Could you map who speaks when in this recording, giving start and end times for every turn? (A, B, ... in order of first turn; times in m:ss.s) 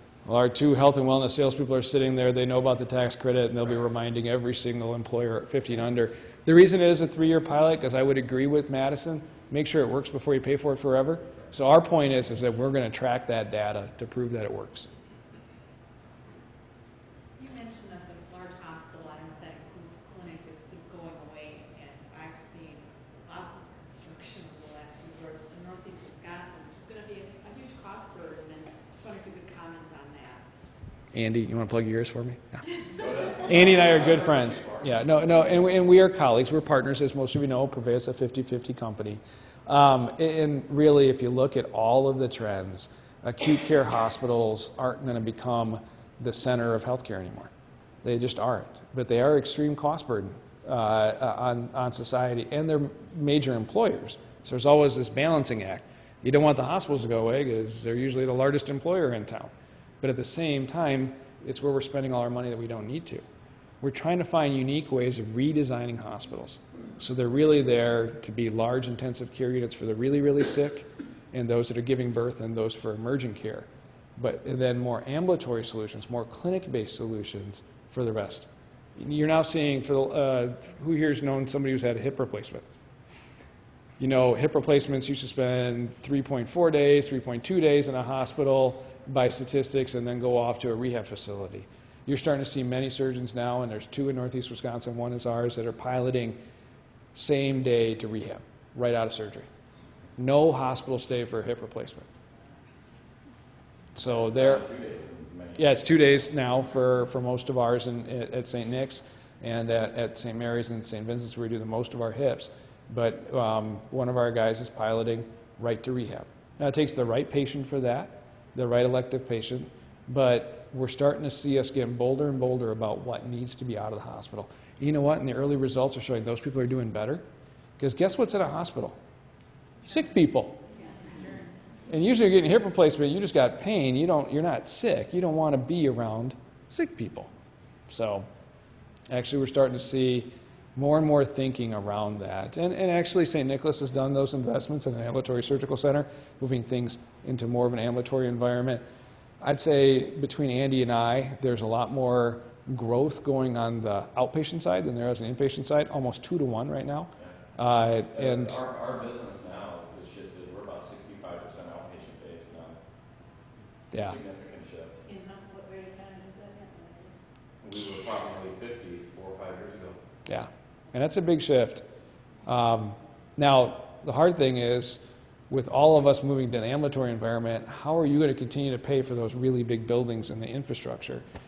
0:00.2-0:14.9 A
0:17.4-0:30.4 B
0:31.1-0:32.6 A
0:33.0-0:35.0 C
0:33.4-0:47.5 A
0:48.0-1:03.2 A
1:03.8-1:22.6 A
1:24.0-1:36.4 A
1:37.1-1:39.5 A
1:40.2-1:42.1 A
1:43.9-1:44.6 A
1:44.0-1:46.0 C
1:45.6-2:07.2 A
2:07.8-2:09.0 A
2:09.8-2:10.6 A
2:10.9-2:11.5 B
2:11.9-2:17.3 A
2:17.9-2:18.3 A
2:19.1-2:28.8 A
2:29.4-2:38.6 A
2:38.1-2:42.8 C
2:43.9-2:45.0 C
2:43.9-2:44.2 A
2:45.0-2:47.1 B
2:47.6-2:50.0 C
2:50.3-2:51.8 A
2:52.4-3:01.2 A